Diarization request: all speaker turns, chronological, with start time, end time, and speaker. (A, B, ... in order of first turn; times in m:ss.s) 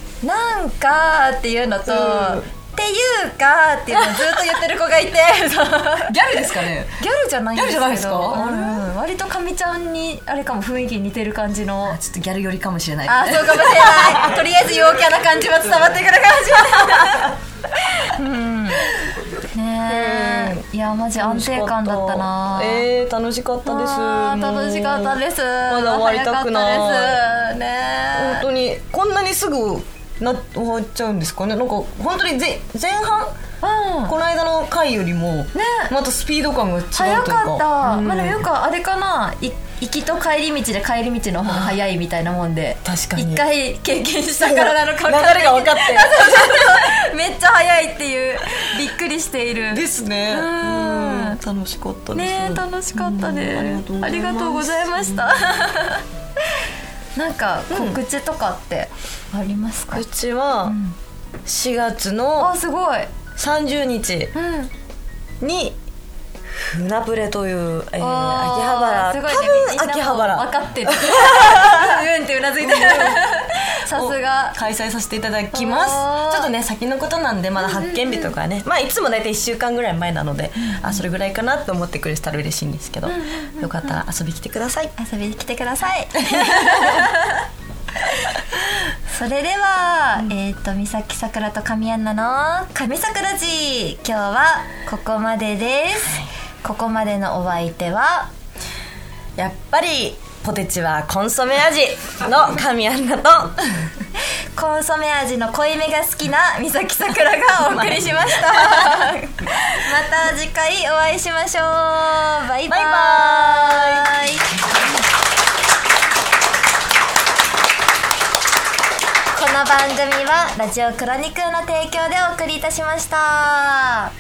0:00.2-0:06.3 A
0:01.9-0:02.4 B
0:03.9-0:04.6 B
0:06.1-0:07.0 B
0:07.0-0:12.0 A
0:07.6-0:08.9 B
0:11.8-0:14.4 B
0:13.0-0:22.9 A
0:16.8-0:17.3 B
0:19.9-0:20.7 B
0:21.2-0:27.3 B
0:23.7-0:28.5 A
0:28.1-0:33.4 B
0:33.6-0:34.2 A
0:34.1-0:38.4 B
0:35.5-0:35.9 A
0:36.9-0:51.4 A
0:41.5-0:41.8 B
0:42.8-0:43.5 B
0:44.4-0:46.9 B
0:49.7-0:55.5 B
0:52.1-0:56.6 A
0:57.2-1:00.1 A
0:57.7-0:58.0 B
0:59.9-1:00.8 B
1:00.6-1:01.0 A
1:01.4-1:02.6 B
1:02.4-1:03.1 A
1:03.4-1:04.3 B
1:04.4-1:04.7 A
1:05.4-1:05.8 B
1:06.5-1:24.9 B
1:08.0-1:14.6 A
1:15.5-1:16.5 A
1:17.6-1:18.3 A
1:20.6-1:20.9 A
1:23.1-1:23.6 A
1:25.0-1:27.4 A
1:26.2-1:27.1 B
1:29.1-1:38.3 A
1:39.4-1:43.8 B
1:44.6-1:54.8 A
1:47.7-1:49.1 B
1:52.7-1:54.4 B
1:59.3-2:04.1 A